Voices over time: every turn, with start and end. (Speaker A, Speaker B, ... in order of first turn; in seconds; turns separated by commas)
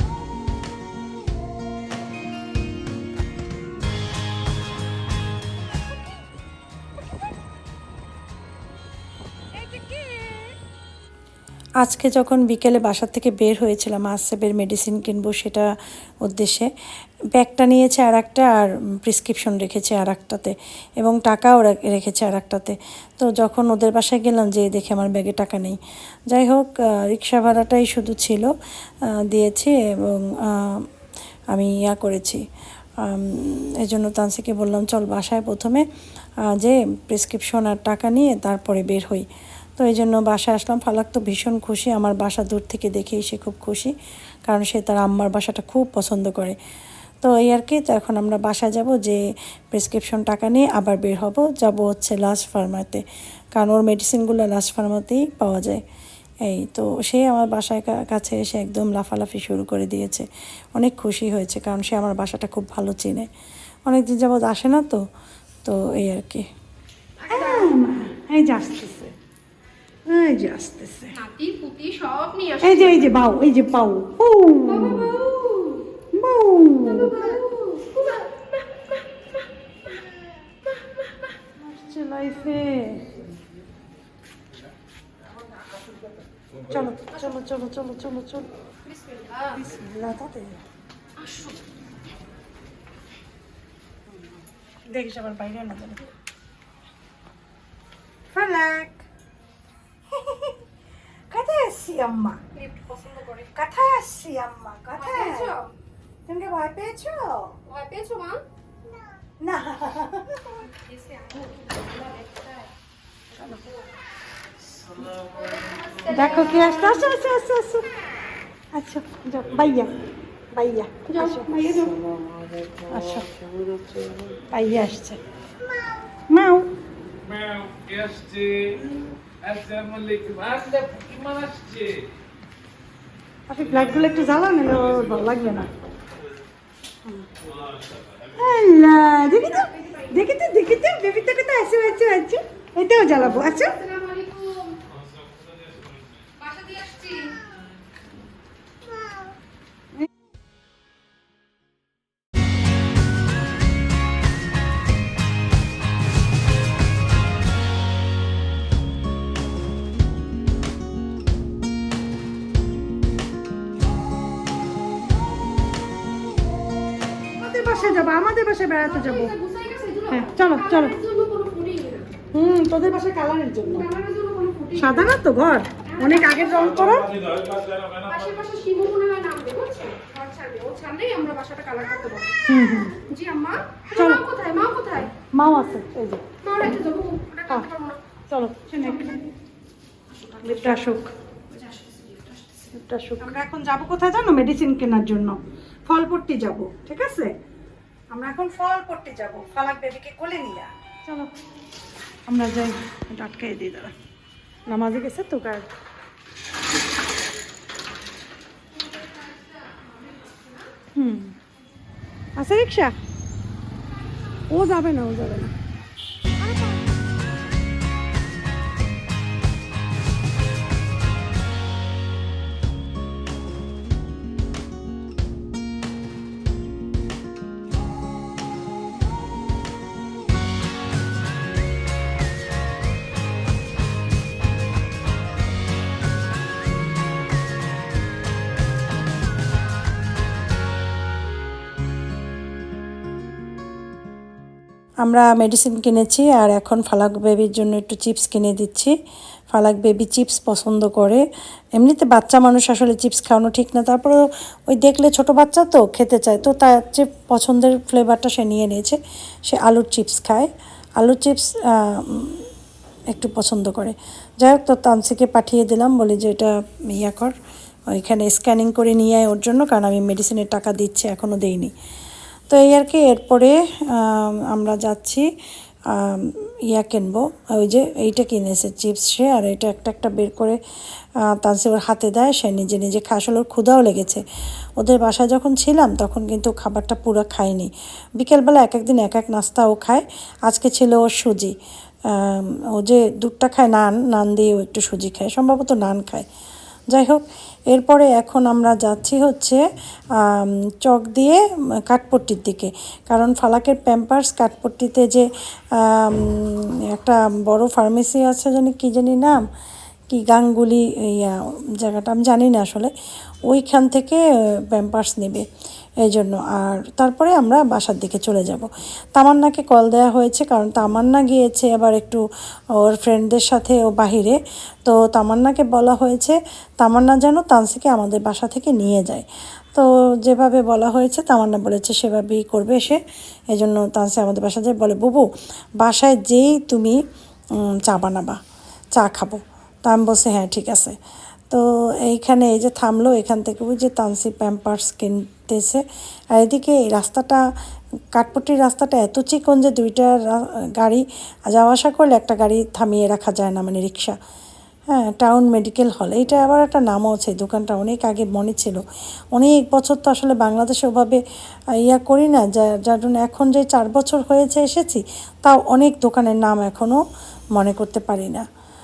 Speaker A: 9.6-10.5, Speaker B: 11.8-15.7, Speaker B: 16.2-16.7, Speaker B: 17.3-28.5, Speaker B: 29.1-30.9, Speaker B: 31.5-32.4, Speaker B: 33.0-35.9, Speaker B: 36.5-39.3, Speaker B: 39.8-43.9, Speaker B: 44.5-46.6, Speaker B: 47.2-49.2, Speaker B: 49.7-53.0, Speaker B: 53.6-55.8, Speaker B: 56.5-63.3, Speaker B: 63.9-65.0, Speaker B: 65.7-66.5, Speaker C: 67.2-67.8, Speaker A: 67.3-69.1, Speaker A: 70.1-71.1, Speaker C: 71.1-73.2, Speaker A: 72.6-75.2, Speaker C: 74.6-75.9, Speaker A: 76.2-77.4, Speaker C: 76.8-79.0, Speaker C: 80.8-81.3, Speaker A: 81.6-83.2, Speaker A: 86.7-88.5, Speaker C: 87.1-87.4, Speaker C: 88.8-89.6, Speaker A: 89.5-90.6, Speaker C: 91.2-91.6, Speaker A: 94.1-96.0, Speaker A: 98.3-99.0, Speaker A: 100.1-100.6, Speaker A: 101.3-102.4, Speaker C: 102.5-103.5, Speaker A: 103.5-105.5, Speaker C: 104.9-105.7, Speaker A: 106.3-107.5, Speaker C: 107.7-108.4, Speaker A: 109.4-110.6, Speaker C: 110.6-112.7, Speaker A: 113.3-113.6, Speaker C: 115.2-117.2, Speaker A: 116.1-117.9, Speaker A: 118.8-119.9, Speaker A: 120.5-121.6, Speaker C: 121.1-122.1, Speaker A: 122.8-125.2, Speaker A: 126.3-126.7, Speaker D: 127.3-128.8, Speaker D: 129.4-132.0, Speaker A: 133.5-135.8, Speaker A: 138.3-143.8, Speaker C: 139.1-140.3, Speaker C: 143.2-144.8, Speaker C: 146.3-147.4, Speaker A: 167.4-169.3, Speaker C: 167.7-172.1, Speaker A: 170.1-170.9, Speaker A: 172.3-173.9, Speaker C: 173.7-175.2, Speaker A: 174.8-177.2, Speaker C: 175.8-177.0, Speaker D: 177.3-177.9, Speaker C: 178.0-182.4, Speaker A: 182.5-183.0, Speaker C: 183.0-185.1, Speaker A: 183.9-184.2, Speaker A: 185.4-186.2, Speaker C: 186.4-188.0, Speaker A: 188.3-189.2, Speaker C: 188.8-189.2, Speaker C: 190.1-192.7, Speaker A: 190.4-191.1, Speaker A: 192.7-197.3, Speaker A: 198.1-201.3, Speaker A: 202.3-203.9, Speaker A: 204.7-205.7, Speaker C: 208.8-210.7, Speaker A: 211.0-211.3, Speaker A: 212.4-212.9, Speaker A: 214.5-215.5, Speaker B: 245.0-248.9, Speaker B: 249.5-251.2, Speaker B: 251.8-262.5, Speaker B: 263.1-267.3, Speaker B: 267.9-271.7, Speaker B: 272.5-275.3, Speaker B: 275.9-280.6, Speaker B: 281.3-284.2, Speaker B: 284.8-291.5, Speaker B: 292.1-296.3, Speaker B: 296.9-299.6, Speaker B: 300.1-309.4, Speaker B: 310.1-312.9, Speaker B: 313.5-315.5, Speaker B: 316.0-322.2, Speaker B: 322.8-333.0, Speaker B: 333.5-335.3, Speaker B: 335.8-337.0, Speaker B: 337.7-338.4, Speaker B: 339.0-341.0, Speaker B: 341.5-345.8, Speaker B: 346.4-347.4, Speaker B: 348.1-354.2, Speaker B: 354.9-358.8, Speaker B: 359.3-361.2, Speaker B: 361.8-367.0, Speaker B: 367.6-368.4